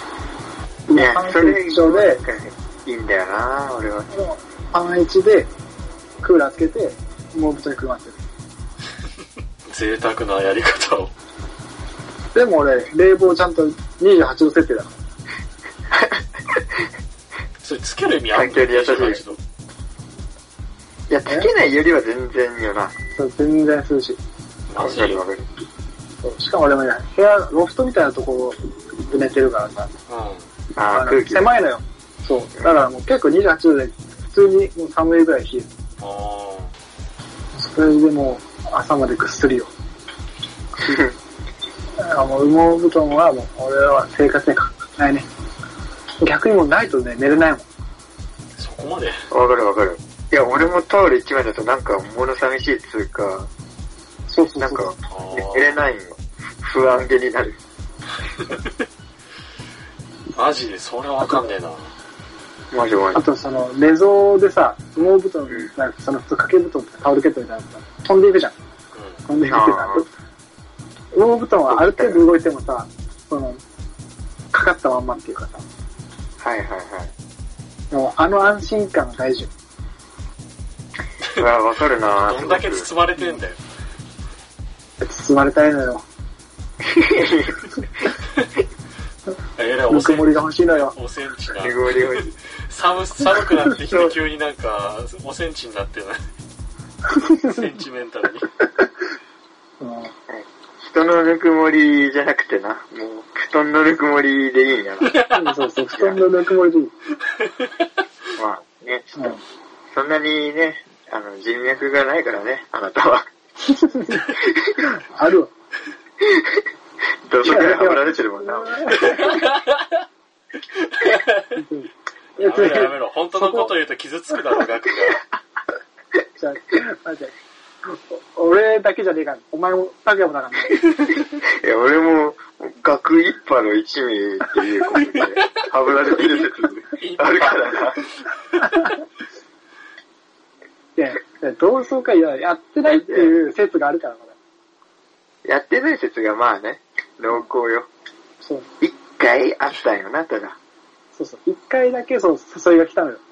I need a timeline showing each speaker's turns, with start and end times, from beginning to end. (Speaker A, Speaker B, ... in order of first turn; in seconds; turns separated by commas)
Speaker A: 0.9-2.2, Speaker B: 0.9-4.1, Speaker A: 4.1-5.5, Speaker A: 6.2-8.2, Speaker C: 9.7-11.1, Speaker A: 12.3-14.9, Speaker B: 15.9-16.6, Speaker C: 17.6-19.4, Speaker B: 18.3-19.2, Speaker B: 21.1-22.9, Speaker A: 23.1-24.2, Speaker C: 24.7-25.2, Speaker B: 24.8-25.5, Speaker A: 26.2-29.9, Speaker C: 30.1-30.5, Speaker B: 30.8-31.6, Speaker A: 30.9-35.7, Speaker C: 36.0-36.7, Speaker A: 37.5-39.7, Speaker B: 40.8-41.1, Speaker A: 42.0-45.3, Speaker A: 46.2-47.7, Speaker C: 48.6-49.2, Speaker B: 49.3-53.5, Speaker A: 54.3-54.9, Speaker B: 54.6-57.6, Speaker C: 55.1-55.8, Speaker C: 60.3-61.9, Speaker A: 61.2-61.5, Speaker B: 62.7-63.2, Speaker A: 63.1-68.5, Speaker C: 68.9-69.2, Speaker A: 69.2-70.1, Speaker B: 69.5-70.0, Speaker A: 71.1-73.6, Speaker B: 71.7-72.2, Speaker A: 74.5-75.6, Speaker B: 76.4-77.1, Speaker A: 77.9-79.5, Speaker B: 81.3-82.9, Speaker C: 82.2-83.6, Speaker A: 85.0-86.0, Speaker B: 86.8-87.8, Speaker C: 89.6-90.4, Speaker A: 89.9-90.9, Speaker C: 90.9-96.2, Speaker B: 91.6-92.3, Speaker B: 93.9-94.2, Speaker A: 97.1-97.6, Speaker C: 97.5-98.5, Speaker A: 98.6-98.9, Speaker A: 99.8-100.1, Speaker B: 100.3-105.2, Speaker C: 105.0-105.4, Speaker A: 105.3-106.9, Speaker B: 105.9-106.2, Speaker B: 108.4-109.3, Speaker B: 109.9-113.3, Speaker A: 113.7-114.3, Speaker B: 114.2-114.9, Speaker A: 114.8-115.5, Speaker B: 116.2-116.6, Speaker B: 117.2-119.3, Speaker A: 117.4-119.4, Speaker C: 119.0-119.9, Speaker C: 120.8-121.5, Speaker A: 121.5-123.7, Speaker C: 122.4-125.2, Speaker A: 126.4-127.3, Speaker A: 127.8-130.8, Speaker B: 131.6-138.0, Speaker C: 136.9-138.2, Speaker A: 141.0-144.3, Speaker B: 142.8-143.3, Speaker B: 145.4-147.9, Speaker A: 148.4-148.7, Speaker B: 148.8-150.6, Speaker A: 151.1-153.2